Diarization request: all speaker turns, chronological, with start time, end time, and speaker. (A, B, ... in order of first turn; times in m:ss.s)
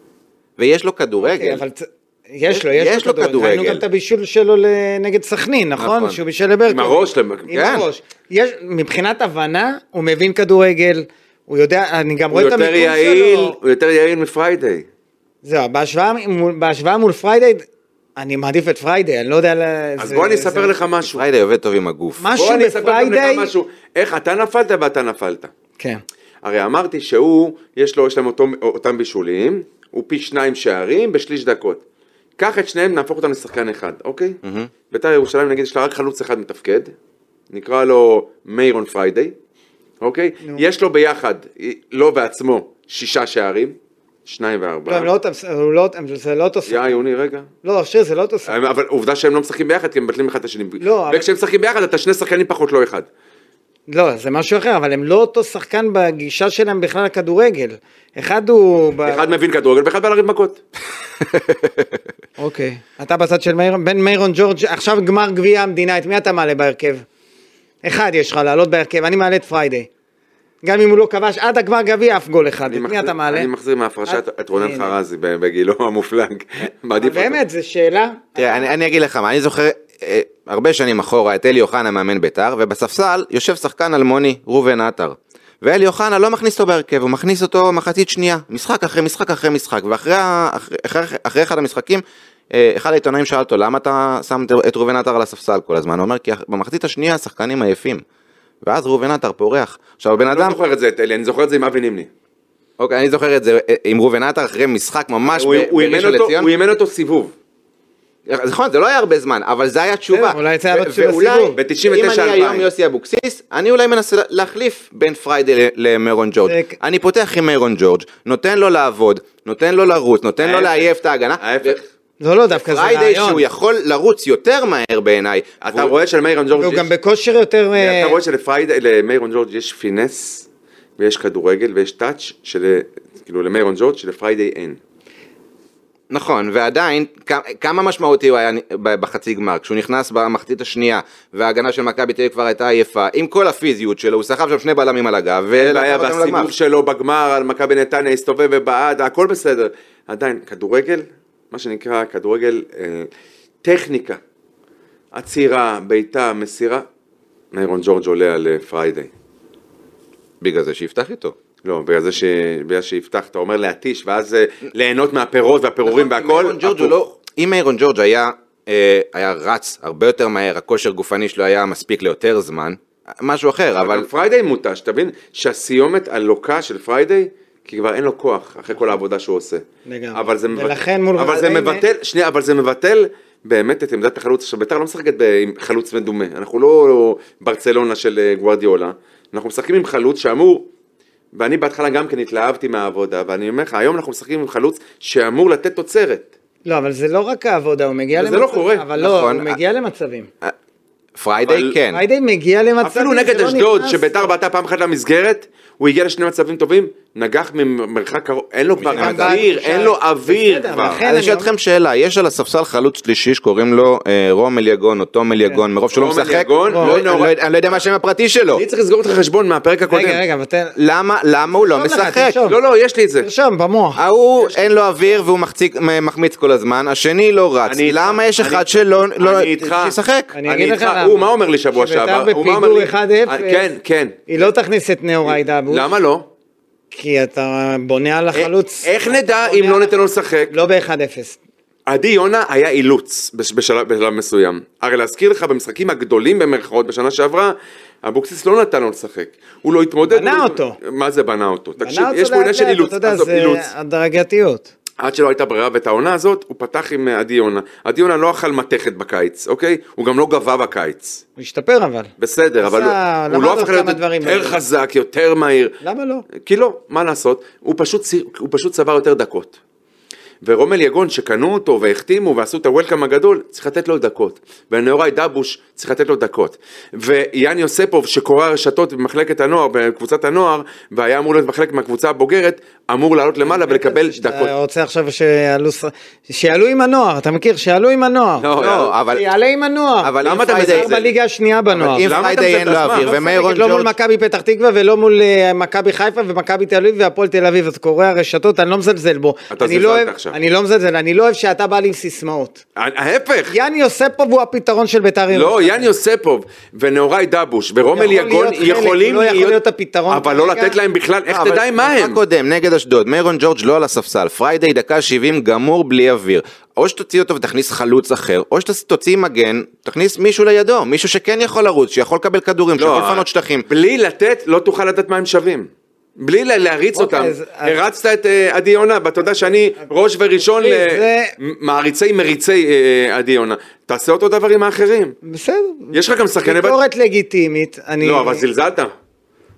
0:00.6-0:01.6 A
0:01.2-0:13.6 B
0:02.5-0:03.8 A
0:05.8-0:06.2 A
0:06.7-0:07.7 C
0:07.5-0:07.8 A
0:12.3-0:14.9 C
0:15.4-0:20.7 B
0:20.0-0:21.2 C
0:21.0-0:22.2 A
0:22.2-0:23.5 B
0:22.4-0:25.5 C
0:26.4-0:31.8 C
0:32.4-0:34.4 C
0:34.4-0:34.7 A
0:34.9-0:36.9 C
0:37.5-0:39.3 C
0:40.0-0:45.1 C
0:44.9-0:47.0 B
0:46.7-0:47.5 C
0:47.6-0:48.5 B
0:48.5-0:53.1 C
0:50.8-0:51.2 B
0:53.9-0:59.2 B
0:59.0-1:00.6 C
1:01.3-1:01.9 A
1:02.4-1:07.0 B
1:07.8-1:09.9 B
1:10.6-1:13.5 B
1:12.7-1:17.4 C
1:14.1-1:14.9 B
1:17.0-1:18.7 B
1:18.4-1:38.0 A
1:38.6-1:40.6 A
1:40.2-1:42.1 C
1:42.8-1:46.5 A
1:45.3-1:47.3 C
1:48.3-2:01.8 A
1:50.1-1:51.6 B
1:51.5-1:52.7 C
1:56.4-1:56.8 B
2:00.4-2:00.9 C
2:01.4-2:01.8 C
2:02.2-2:03.4 B
2:02.5-2:05.9 A
2:05.6-2:06.9 C
2:06.6-2:08.2 B
2:07.7-2:10.4 C
2:11.0-2:14.8 C
2:16.1-2:26.5 A
2:25.6-2:33.1 C
2:33.6-2:34.2 C
2:35.1-2:36.8 C
2:37.5-2:39.1 C
2:40.4-2:41.3 A
2:41.6-2:47.0 C
2:45.8-2:54.1 A
2:53.8-3:10.7 C
2:59.8-3:01.8 B
3:11.3-3:16.3 C
3:16.6-3:20.3 B
3:18.2-3:18.9 C
3:19.0-3:19.6 A
3:21.2-3:22.0 A
3:21.4-3:21.7 C
3:21.9-3:24.3 B
3:22.8-3:31.0 C
3:28.8-3:29.4 A
3:28.9-3:31.5 B
3:31.0-3:38.6 A
3:35.9-3:37.4 C
3:36.7-3:37.0 B
3:38.5-3:40.2 C
3:39.9-3:40.8 B
3:40.8-3:42.4 A
3:41.5-3:42.6 B
3:42.4-3:43.3 C
3:43.2-3:44.0 B
3:44.0-3:50.3 A
3:44.4-3:44.8 C
3:47.6-3:54.5 C
3:50.3-3:53.7 B
3:54.3-3:55.9 B
3:55.2-3:56.3 C
3:56.9-4:01.4 B
3:58.3-4:00.5 C
4:01.9-4:13.7 C
4:10.1-4:10.8 B
4:11.8-4:14.7 B
4:15.0-4:21.2 C
4:21.4-4:22.1 B
4:22.2-4:25.8 C
4:22.6-4:24.6 B
4:25.8-4:26.3 B
4:26.4-4:29.6 C
4:30.4-4:44.5 C
4:43.4-4:52.2 B
4:48.4-4:48.9 C
4:48.5-4:49.2 A
4:50.0-4:50.9 A
4:50.2-4:51.1 C
4:51.7-4:53.9 A
4:52.0-4:53.1 C
4:52.8-5:02.6 B
4:59.5-5:00.3 C
5:02.8-5:03.5 C
5:03.5-5:05.9 B
5:05.3-5:12.2 C
5:07.9-5:10.8 B
5:11.3-5:23.6 A
5:22.8-5:35.2 C
5:26.9-5:27.8 B
5:30.6-5:31.3 B
5:35.2-5:38.4 B
5:35.9-5:36.8 C
5:38.0-5:38.9 C